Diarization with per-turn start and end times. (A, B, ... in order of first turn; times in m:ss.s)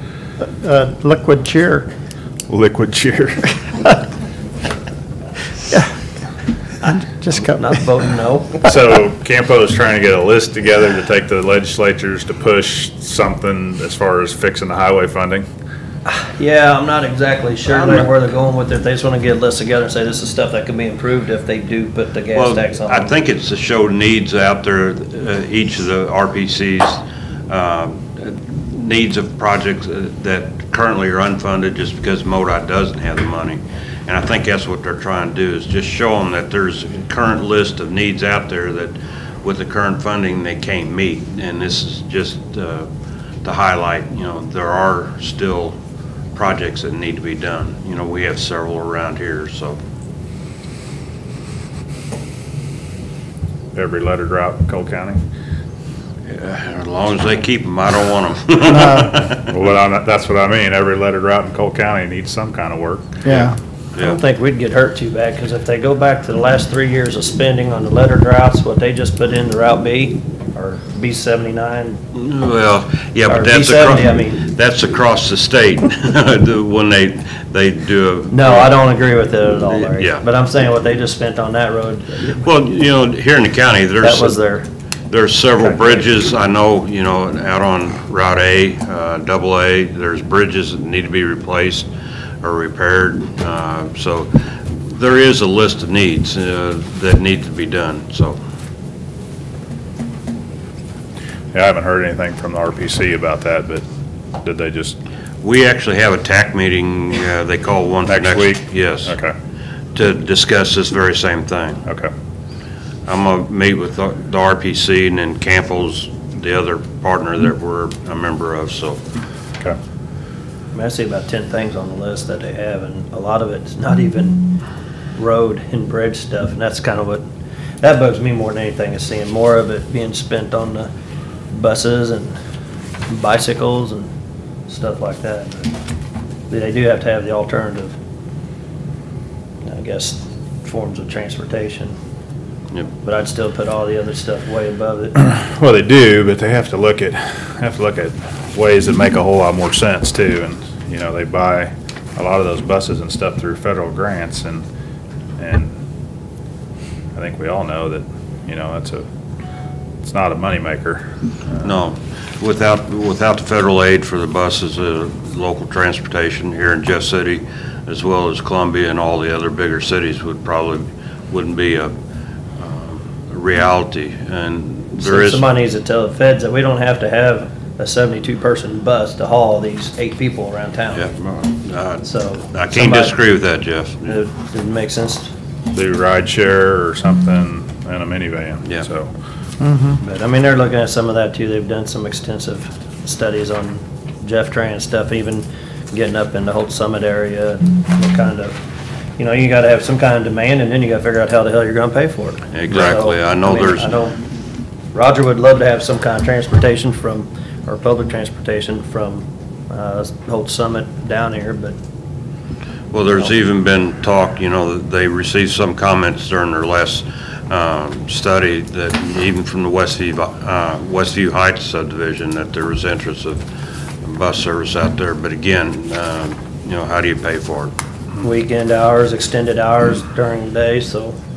0:00.6-0:01.9 A
0:02.5-0:03.6 B
0:06.8-0:07.8 A
0:07.5-0:08.6 C
0:08.6-0:15.5 B
0:16.0-0:23.1 C
0:22.3-0:42.9 D
0:43.4-0:45.8 D
0:46.3-0:49.8 D
0:53.7-0:55.2 B
0:56.3-0:59.4 D
0:58.7-0:59.1 A
0:58.8-1:03.3 B
1:03.2-1:03.6 A
1:04.0-1:12.0 C
1:12.1-1:18.8 D
1:13.3-1:14.4 C
1:18.3-1:22.4 C
1:19.7-1:20.2 D
1:22.3-1:24.4 D
1:24.0-1:24.7 C
1:25.1-1:31.9 D
1:25.6-1:26.0 C
1:32.4-1:38.4 D
1:41.5-1:43.8 B
1:44.4-1:45.0 B
1:45.4-1:49.1 D
1:48.1-1:49.3 B
1:49.9-1:51.8 D
1:51.8-1:52.1 B
1:53.1-1:59.0 D
2:00.7-2:04.4 C
2:05.2-2:07.2 C
2:07.8-2:10.9 C
2:11.5-2:12.3 C
2:13.1-2:14.1 C
2:14.7-2:15.7 C
2:16.5-2:18.0 C
2:19.6-2:21.9 C
2:23.0-2:25.2 C
2:25.2-2:34.6 B
2:35.4-2:35.8 B
2:37.2-2:39.1 B
2:40.0-2:41.7 B
2:41.6-2:51.9 D
2:52.6-2:55.5 D
2:55.0-3:01.1 C
3:00.9-3:04.2 D
3:02.0-3:03.2 C
3:04.1-3:05.3 C
3:05.7-3:09.1 B
3:09.6-3:10.0 A
3:10.0-3:18.6 C
3:19.2-3:24.2 C
3:22.5-3:23.9 D
3:24.9-3:31.8 C
3:32.9-3:43.4 D
3:44.0-3:47.7 D
3:48.2-3:51.2 C